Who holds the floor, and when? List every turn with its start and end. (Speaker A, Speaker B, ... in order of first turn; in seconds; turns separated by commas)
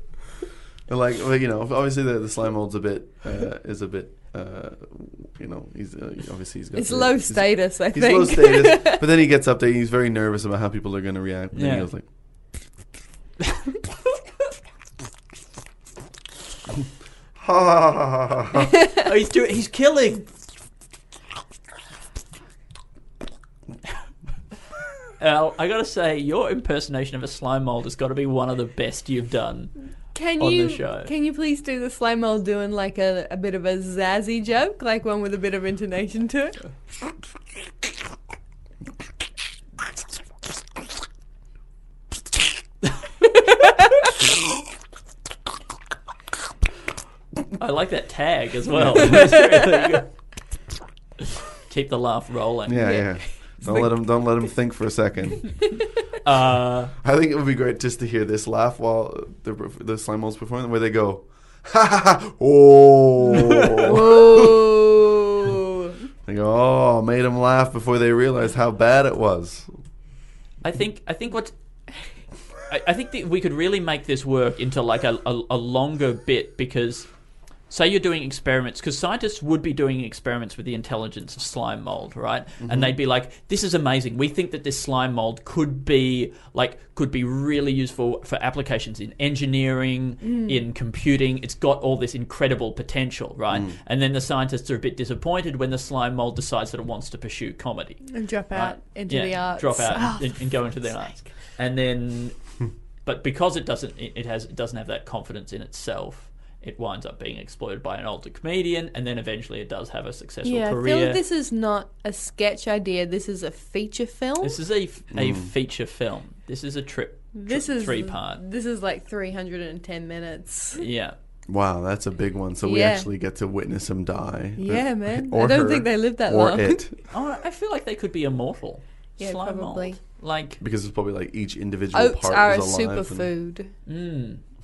Speaker A: 0.9-12.0, Speaker B: 6.7-9.0, Speaker C: 11.5-11.9, Speaker A: 17.4-18.7, Speaker C: 19.0-20.2, Speaker C: 25.2-31.1, Speaker B: 30.1-36.6, Speaker C: 47.5-50.1, Speaker A: 48.8-49.2, Speaker C: 51.6-53.0, Speaker A: 52.6-55.7, Speaker B: 52.8-53.2, Speaker C: 56.2-56.9, Speaker A: 57.0-64.6, Speaker C: 63.4-63.9, Speaker B: 63.8-65.9, Speaker A: 66.2-69.7, Speaker C: 70.6-71.5, Speaker C: 72.7-77.1, Speaker C: 77.7-102.4, Speaker A: 82.6-83.0, Speaker B: 90.2-90.5, Speaker A: 93.5-93.8, Speaker B: 98.1-101.1, Speaker C: 103.0-111.2, Speaker B: 110.4-114.6, Speaker C: 114.4-118.4, Speaker A: 115.1-115.5, Speaker B: 117.3-120.8, Speaker C: 120.8-121.2, Speaker A: 121.5-127.0, Speaker B: 122.6-123.1, Speaker B: 124.6-126.8, Speaker C: 127.1-130.6, Speaker B: 129.2-130.0, Speaker A: 130.6-133.3, Speaker B: 131.9-133.7, Speaker C: 133.8-134.4